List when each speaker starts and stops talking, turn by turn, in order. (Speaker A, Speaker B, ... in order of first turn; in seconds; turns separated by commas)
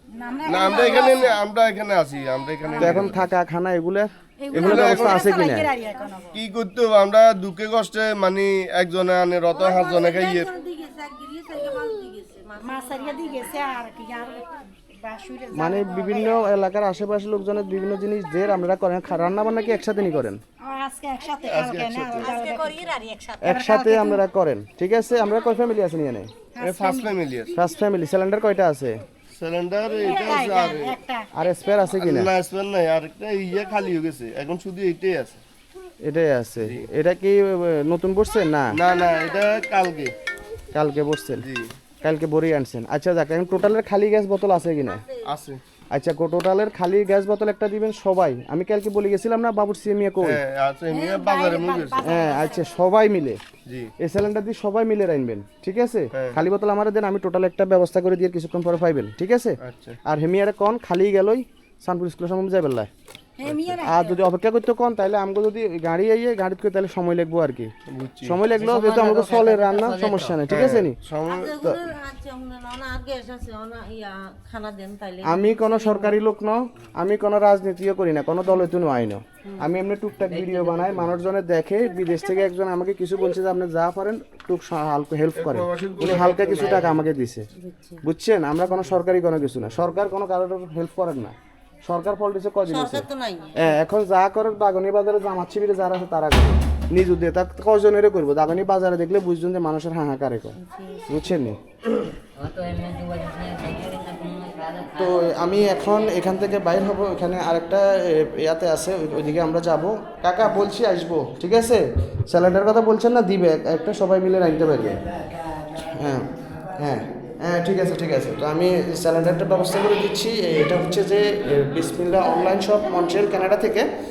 Speaker A: 0.1-1.4, Speaker B: 0.5-3.2, Speaker A: 2.7-3.1, Speaker C: 2.8-5.7, Speaker A: 4.4-6.3, Speaker B: 4.5-5.3, Speaker B: 6.3-10.5, Speaker D: 9.6-13.7, Speaker A: 12.6-16.4, Speaker C: 15.5-20.4, Speaker A: 20.6-24.2, Speaker B: 21.4-22.4, Speaker D: 22.2-23.4, Speaker C: 23.4-26.3, Speaker A: 26.6-27.1, Speaker B: 26.6-27.5, Speaker C: 27.5-29.0, Speaker B: 29.4-31.0, Speaker A: 30.0-31.3, Speaker C: 31.3-32.3, Speaker B: 32.0-35.4, Speaker C: 36.0-38.8, Speaker B: 38.7-40.1, Speaker C: 40.7-41.5, Speaker B: 41.4-41.7, Speaker C: 42.0-45.0, Speaker B: 45.3-45.6, Speaker C: 45.9-50.4, Speaker B: 50.2-52.1, Speaker A: 50.9-52.8, Speaker C: 52.0-53.4, Speaker B: 53.7-53.9, Speaker C: 54.0-62.9, Speaker B: 56.1-56.4, Speaker B: 59.6-60.0, Speaker A: 63.4-64.2, Speaker C: 63.8-67.7, Speaker B: 67.9-68.4, Speaker C: 68.2-71.0, Speaker D: 68.5-70.4, Speaker B: 70.5-71.5, Speaker D: 71.3-76.2, Speaker C: 75.2-87.5, Speaker D: 80.2-81.0, Speaker B: 85.3-87.0, Speaker D: 87.5-88.0, Speaker C: 88.0-91.3, Speaker C: 91.9-93.1, Speaker D: 92.7-93.8, Speaker C: 93.6-101.6, Speaker D: 100.6-101.3, Speaker D: 102.4-105.3, Speaker C: 105.0-115.0, Speaker C: 115.8-123.9